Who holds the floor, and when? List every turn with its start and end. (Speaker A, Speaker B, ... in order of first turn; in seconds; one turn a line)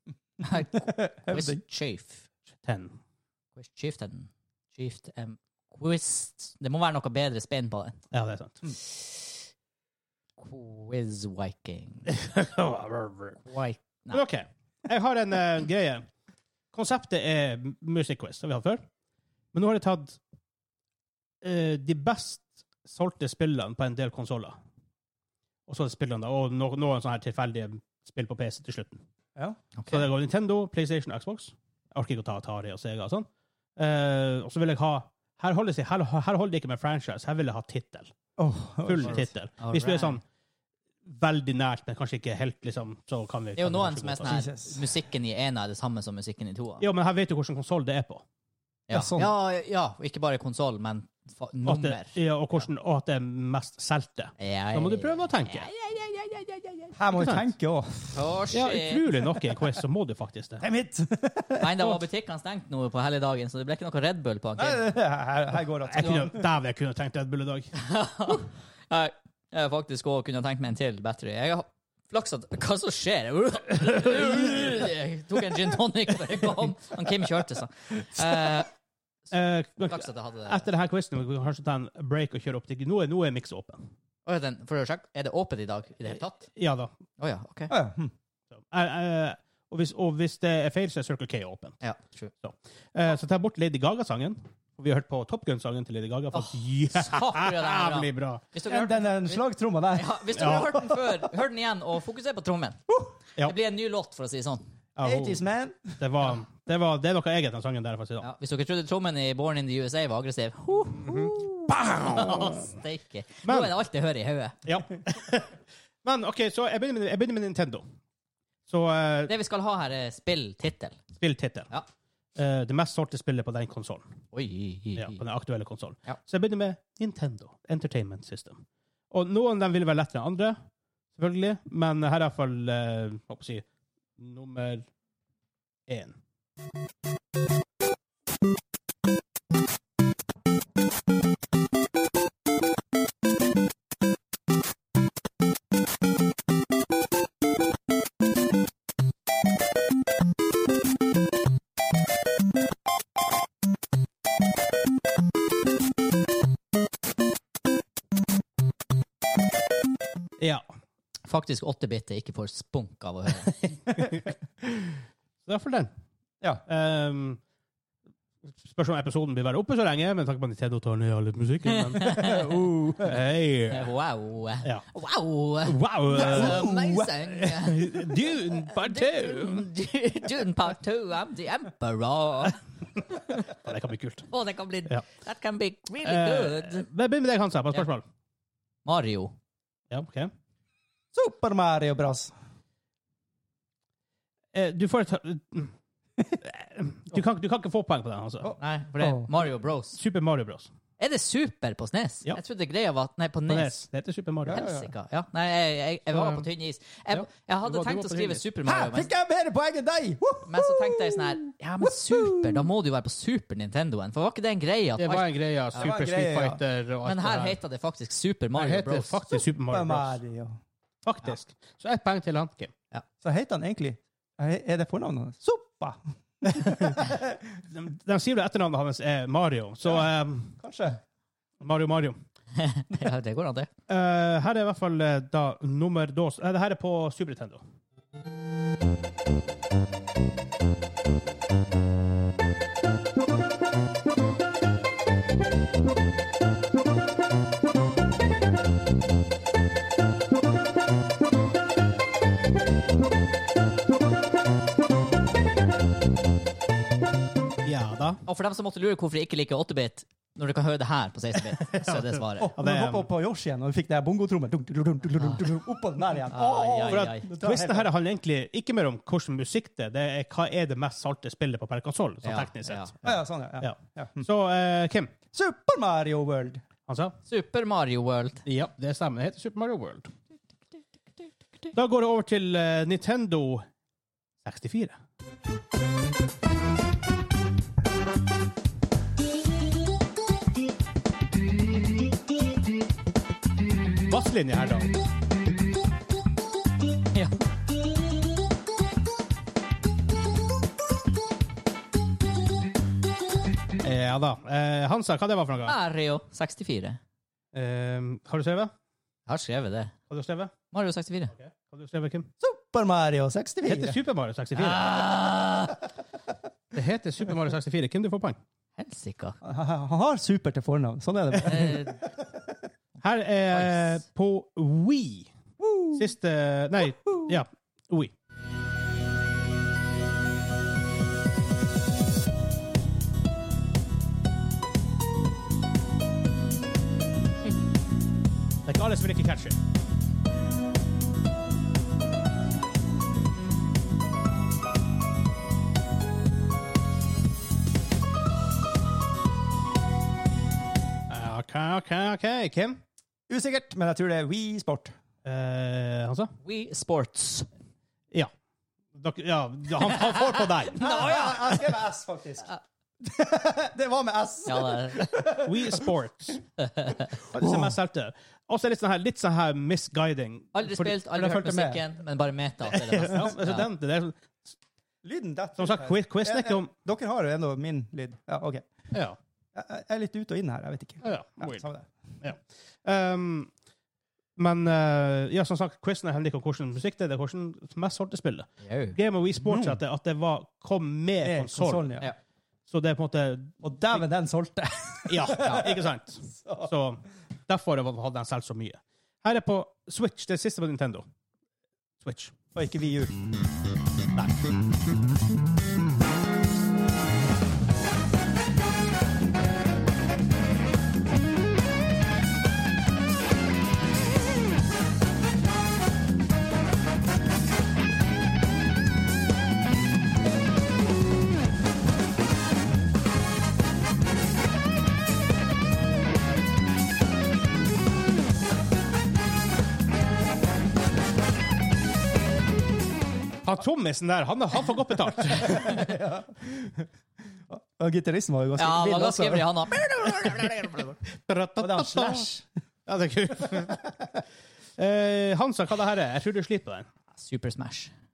Speaker A: 0.4-2.2
Speaker B: 0.7-1.6
Speaker C: 2.6-3.0
Speaker A: 3.6-8.0
Speaker C: 8.1-8.6
Speaker A: 8.8-9.4
Speaker A: 10.4-12.1
Speaker C: 12.1-13.4
Speaker A: 13.4-14.2
Speaker C: 14.1-16.1
Speaker C: 16.7-18.8
Speaker C: 19.5-20.2
Speaker C: 21.4-24.6
Speaker C: 25.7-29.0
Speaker A: 29.8-30.1
Speaker C: 29.9-33.3
Speaker C: 33.8-38.1
Speaker B: 38.4-39.3
Speaker C: 38.9-40.2
Speaker A: 39.1-40.2
Speaker C: 41.1-44.4
Speaker A: 43.6-46.8
Speaker B: 44.3-44.8
Speaker C: 46.8-48.2
Speaker A: 48.9-52.2
Speaker B: 48.9-49.3
Speaker C: 51.7-55.7
Speaker A: 54.4-56.9
Speaker B: 57.0-58.2
Speaker C: 57.1-57.4
Speaker A: 58.1-59.2
Speaker C: 58.5-60.6
Speaker B: 60.6-62.0
Speaker A: 61.6-64.9
Speaker B: 64.6-66.4
Speaker C: 65.9-67.7
Speaker A: 67.8-78.7
Speaker C: 79.3-83.9
Speaker A: 79.9-80.7
Speaker A: 84.3-86.5
Speaker C: 86.5-86.9
Speaker A: 87.2-87.7
Speaker B: 87.7-88.1
Speaker C: 88.5-91.8
Speaker A: 91.8-92.3
Speaker C: 92.4-98.5
Speaker A: 96.3-99.4
Speaker B: 98.7-101.2
Speaker A: 99.9-102.8
Speaker C: 100.4-100.7
Speaker A: 103.4-104.7
Speaker C: 105.0-105.4
Speaker B: 105.0-106.0
Speaker C: 106.0-108.3
Speaker A: 108.2-114.6
Speaker C: 110.9-112.7
Speaker C: 113.5-113.7
Speaker C: 114.7-117.8
Speaker C: 118.7-119.3
Speaker A: 119.3-121.0
Speaker C: 121.2-121.7
Speaker C: 122.4-124.2
Speaker A: 124.3-125.2
Speaker C: 125.0-130.6
Speaker C: 131.2-133.7
Speaker C: 134.2-134.9
Speaker C: 135.9-136.2
Speaker A: 161.3-163.6
Speaker C: 163.9-164.3
Speaker C: 165.4-165.9
Speaker C: 166.7-167.4
Speaker C: 168.6-172.2
Speaker A: 171.7-172.5
Speaker B: 172.2-173.2
Speaker C: 173.0-173.9
Speaker A: 173.7-183.5
Speaker C: 175.7-176.7
Speaker B: 176.1-177.1
Speaker C: 177.4-179.7
Speaker C: 183.4-184.3
Speaker A: 184.3-186.9
Speaker C: 186.0-188.0
Speaker A: 188.8-189.3
Speaker C: 189.9-190.3
Speaker B: 191.1-192.3
Speaker C: 194.5-195.7
Speaker C: 196.3-198.6
Speaker B: 198.4-199.3
Speaker A: 198.6-200.0
Speaker C: 200.0-200.7
Speaker A: 201.0-203.8
Speaker C: 203.5-204.6
Speaker B: 204.5-204.9
Speaker A: 204.5-209.1
Speaker C: 206.1-206.5
Speaker C: 207.1-208.4
Speaker B: 208.7-212.7
Speaker A: 210.5-215.9
Speaker C: 215.0-217.6
Speaker B: 215.8-216.6
Speaker A: 217.1-219.2
Speaker C: 218.6-220.2
Speaker B: 219.7-220.6
Speaker C: 221.0-222.7
Speaker B: 223.2-227.4
Speaker C: 227.7-230.6
Speaker B: 230.6-231.0
Speaker C: 231.6-232.2
Speaker A: 232.6-233.7
Speaker C: 233.9-237.6
Speaker C: 257.6-258.2
Speaker A: 258.3-262.5
Speaker C: 261.6-263.1
Speaker B: 262.4-267.9
Speaker A: 266.3-267.3
Speaker C: 266.7-275.1
Speaker A: 272.2-272.9
Speaker B: 273.0-274.3
Speaker B: 275.3-276.6
Speaker C: 276.9-277.2
Speaker A: 277.3-278.4
Speaker C: 278.5-280.1
Speaker C: 281.7-283.7
Speaker C: 284.4-285.0
Speaker C: 294.1-294.9
Speaker C: 303.8-305.8
Speaker A: 305.7-307.0
Speaker C: 307.5-308.7
Speaker A: 309.3-309.9
Speaker C: 310.1-310.5
Speaker A: 310.7-311.3
Speaker C: 311.3-312.3
Speaker B: 312.4-314.0
Speaker C: 313.7-315.0
Speaker A: 314.6-315.8
Speaker C: 316.7-318.4
Speaker A: 318.8-319.4
Speaker B: 319.4-322.1
Speaker A: 321.4-322.0
Speaker C: 323.0-325.3
Speaker A: 323.5-324.0
Speaker B: 325.6-326.0
Speaker C: 325.9-328.1
Speaker C: 338.7-339.6
Speaker C: 351.1-352.8
Speaker B: 353.3-354.9
Speaker C: 355.2-356.3
Speaker A: 356.4-357.5
Speaker C: 358.9-361.0
Speaker A: 359.8-361.6
Speaker B: 360.8-365.9
Speaker A: 364.5-365.1
Speaker C: 365.3-366.4
Speaker A: 366.6-367.1
Speaker C: 367.2-371.4
Speaker B: 367.4-367.8
Speaker A: 370.5-373.7
Speaker B: 371.2-371.8
Speaker C: 372.7-374.2
Speaker B: 375.0-378.7
Speaker C: 375.6-376.7
Speaker C: 378.9-379.2
Speaker B: 379.5-381.9
Speaker C: 381.0-381.7
Speaker C: 382.2-383.5
Speaker C: 384.4-391.9
Speaker A: 388.6-389.0
Speaker B: 389.4-389.8
Speaker B: 391.2-392.1
Speaker C: 392.7-393.6
Speaker B: 393.6-396.7
Speaker C: 395.1-401.1
Speaker A: 395.4-395.7
Speaker C: 402.0-402.3
Speaker B: 402.6-403.1
Speaker C: 433.4-436.0
Speaker B: 435.4-436.9
Speaker B: 437.5-439.5
Speaker A: 438.6-441.0
Speaker C: 440.1-442.3
Speaker B: 441.6-442.4
Speaker C: 442.9-444.2
Speaker C: 444.8-446.9
Speaker A: 447.1-447.9